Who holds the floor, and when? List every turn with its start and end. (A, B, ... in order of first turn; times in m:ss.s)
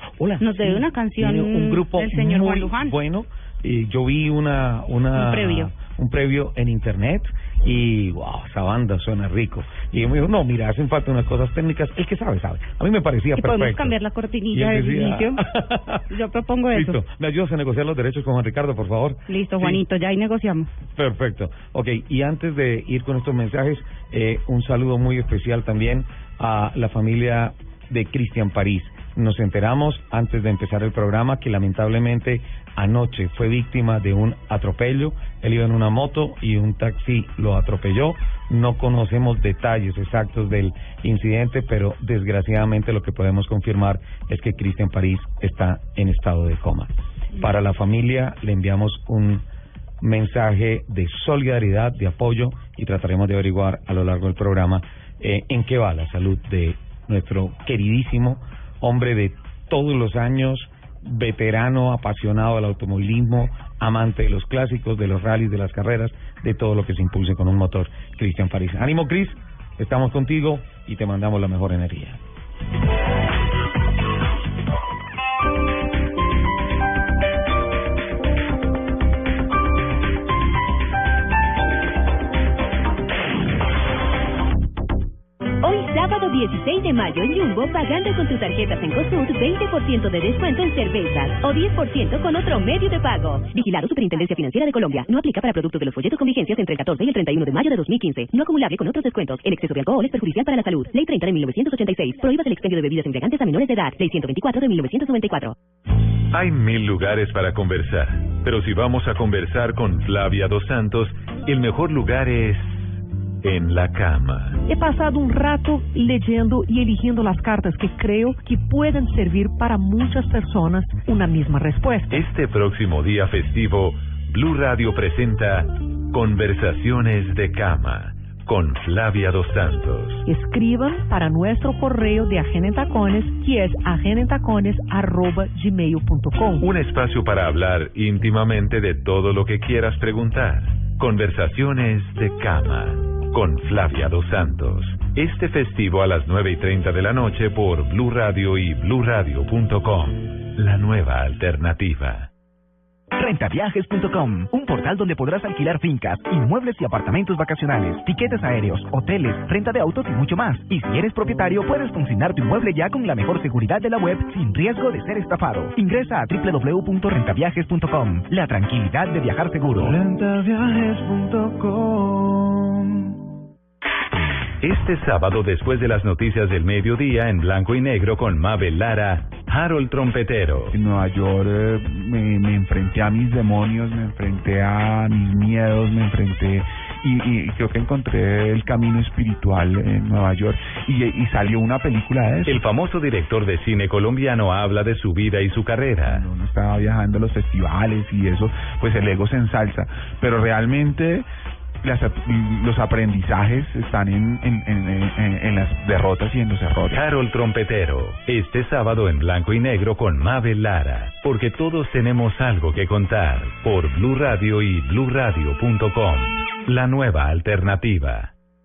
0:00.2-0:14.0 A
0:00.4-0:03.0 B
0:05.1-0:05.7 B
0:13.4-0:15.4 B
0:14.5-0:16.0 A
0:16.1-0:17.0 B
0:16.7-0:19.8 A
0:19.3-0:20.7 B
0:21.0-0:49.4 A
0:50.0-1:12.2 A
1:25.6-1:45.5 C
1:46.3-1:54.6 D
1:54.6-2:02.2 E
2:02.1-2:10.2 D
2:10.2-2:16.7 E
2:16.6-2:32.3 D
2:33.1-2:50.0 F
2:49.9-2:52.9 G
2:54.6-3:00.8 D
3:00.7-3:12.6 G
3:12.4-3:16.3 D
3:16.0-3:21.2 G
3:21.8-3:27.0 G
3:26.9-3:38.3 D